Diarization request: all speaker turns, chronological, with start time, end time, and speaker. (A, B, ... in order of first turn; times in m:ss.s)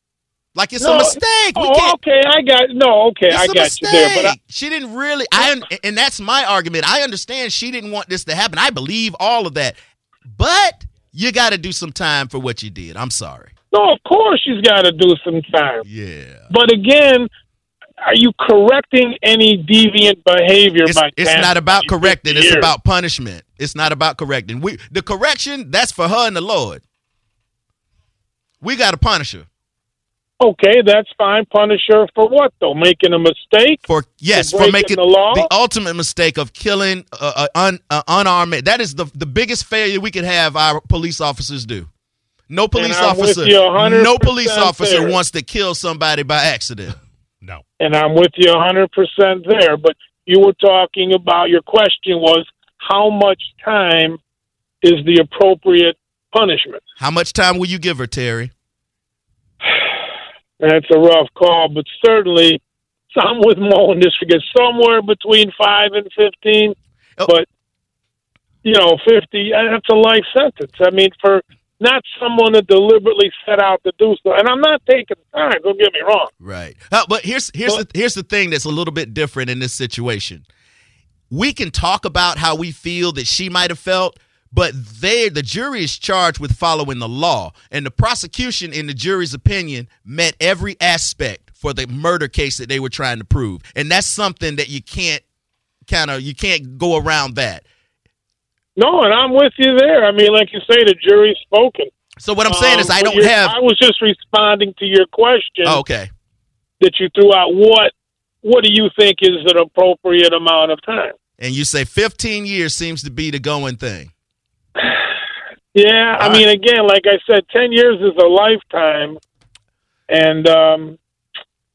0:00.5-0:02.0 A
0:00.8-0:04.4 B
0:03.3-0:09.8 A
0:10.3-0:13.5 A
0:13.7-0:15.8 B
0:15.8-0:16.5 A
0:16.5-0:17.3 B
0:18.0-0:22.7 B
0:20.8-0:26.8 A
0:28.6-0:29.5 A
0:30.4-0:35.5 B
0:33.9-0:41.9 A
0:42.5-0:47.0 A
0:42.7-0:45.2 B
0:47.8-0:54.2 B
0:54.8-0:56.8 B
0:57.0-0:58.5 A
1:00.6-1:02.6 B
1:03.1-1:06.7 B
1:08.6-1:16.3 B
1:16.4-1:20.4 A
1:21.3-1:35.2 A
1:35.9-1:37.6 A
1:38.8-1:41.9 B
1:42.2-1:43.6 A
1:42.4-1:45.8 B
1:45.6-1:46.1 A
1:46.8-1:51.1 B
1:51.4-1:54.1 A
1:54.8-1:55.0 B
1:55.7-1:59.2 B
1:56.1-1:56.4 A
2:00.1-2:01.0 B